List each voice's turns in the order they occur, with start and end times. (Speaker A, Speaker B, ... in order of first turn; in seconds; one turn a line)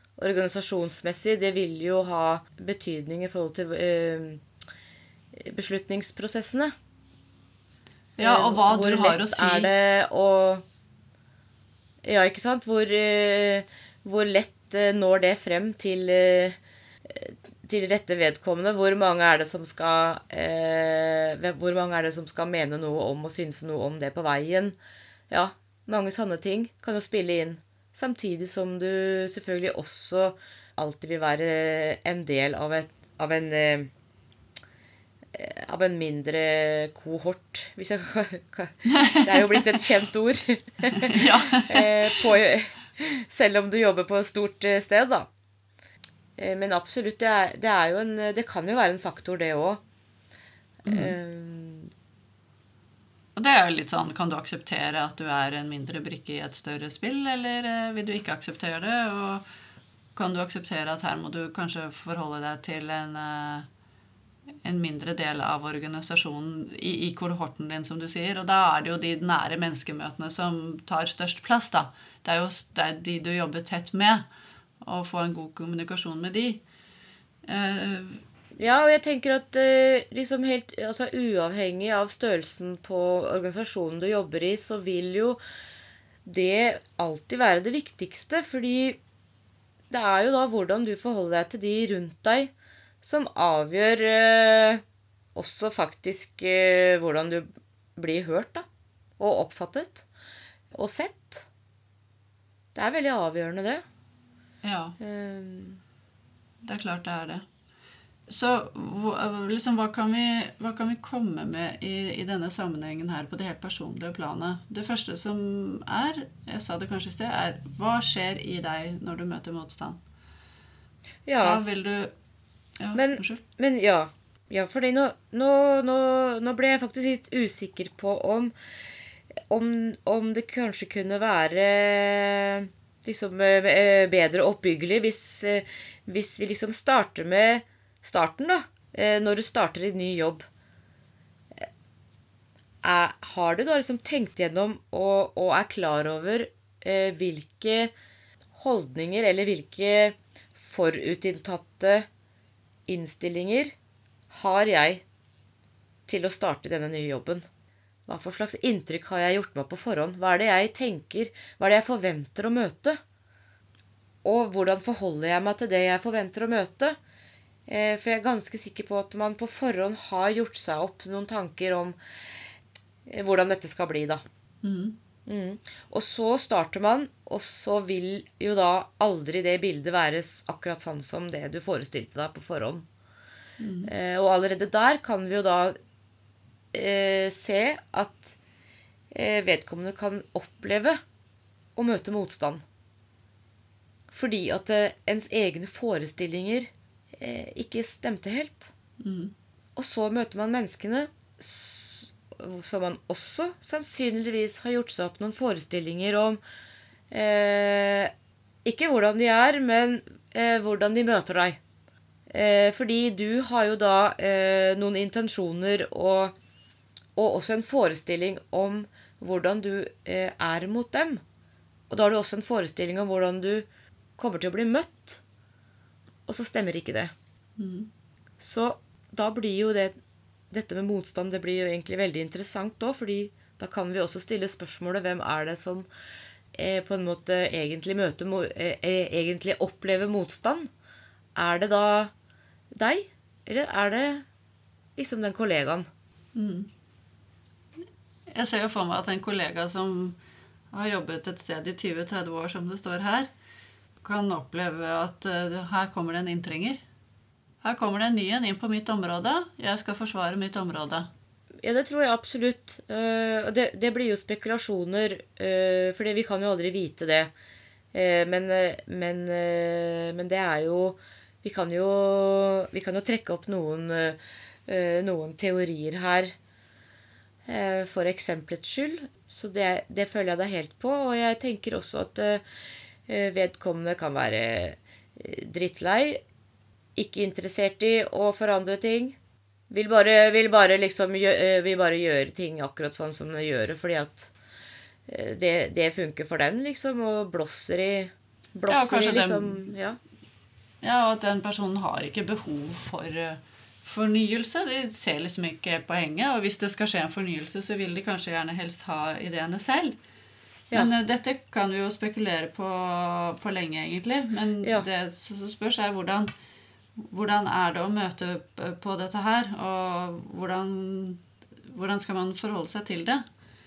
Speaker A: 0.2-4.4
Speaker A: 5.3-6.7
Speaker B: 8.2-9.7
Speaker A: 8.2-10.6
Speaker A: 12.0-24.7
Speaker A: 25.3-33.9
Speaker A: 35.3-45.3
Speaker B: 38.9-39.8
Speaker B: 40.9-42.2
Speaker A: 46.4-49.8
Speaker A: 50.8-51.9
Speaker B: 50.9-51.1
Speaker B: 53.4-59.4
Speaker B: 60.1-63.7
Speaker B: 64.6-74.2
Speaker B: 74.8-76.6
Speaker B: 77.5-78.2
Speaker A: 78.6-85.4
Speaker A: 86.2-89.0
Speaker A: 89.9-94.8
Speaker A: 95.3-98.7
Speaker A: 99.2-100.0
Speaker A: 100.7-101.5
Speaker A: 102.7-103.8
Speaker B: 104.6-105.0
Speaker A: 105.0-105.8
Speaker B: 106.6-107.4
Speaker B: 108.3-120.0
Speaker A: 121.2-121.6
Speaker B: 121.4-122.1
Speaker B: 122.8-123.4
Speaker A: 122.9-128.5
Speaker A: 129.4-140.5
Speaker A: 142.8-147.9
Speaker A: 148.5-152.1
Speaker A: 152.9-153.7
Speaker A: 154.3-155.0
Speaker A: 156.1-157.4
Speaker A: 158.1-163.0
Speaker A: 164.2-167.0
Speaker A: 167.7-172.0
Speaker A: 173.1-174.2
Speaker B: 174.6-174.9
Speaker A: 175.3-182.8
Speaker B: 183.6-183.9
Speaker A: 183.8-185.7
Speaker A: 186.7-188.4
Speaker A: 189.1-191.0
Speaker A: 191.8-192.6
Speaker A: 194.1-198.7
Speaker B: 199.0-199.3
Speaker A: 199.8-206.4
Speaker A: 207.1-208.1
Speaker A: 208.6-211.6
Speaker A: 212.3-216.3
Speaker A: 217.2-221.2
Speaker A: 221.9-223.7
Speaker A: 224.2-225.2
Speaker A: 226.3-227.1
Speaker B: 227.6-227.9
Speaker A: 228.4-229.9
Speaker A: 230.5-235.9
Speaker A: 236.5-240.7
Speaker A: 241.3-242.1
Speaker A: 242.7-244.2
Speaker A: 245.0-245.9
Speaker B: 246.3-246.7
Speaker B: 248.3-250.2
Speaker B: 250.7-253.3
Speaker B: 254.0-256.8
Speaker B: 257.6-261.1
Speaker A: 261.6-267.3
Speaker A: 267.9-276.3
Speaker A: 277.4-282.4
Speaker A: 283.1-286.2
Speaker A: 286.9-289.1
Speaker A: 289.7-294.3
Speaker A: 295.1-300.0
Speaker B: 298.7-299.6
Speaker B: 300.8-309.9
Speaker B: 310.7-316.3
Speaker B: 317.0-323.2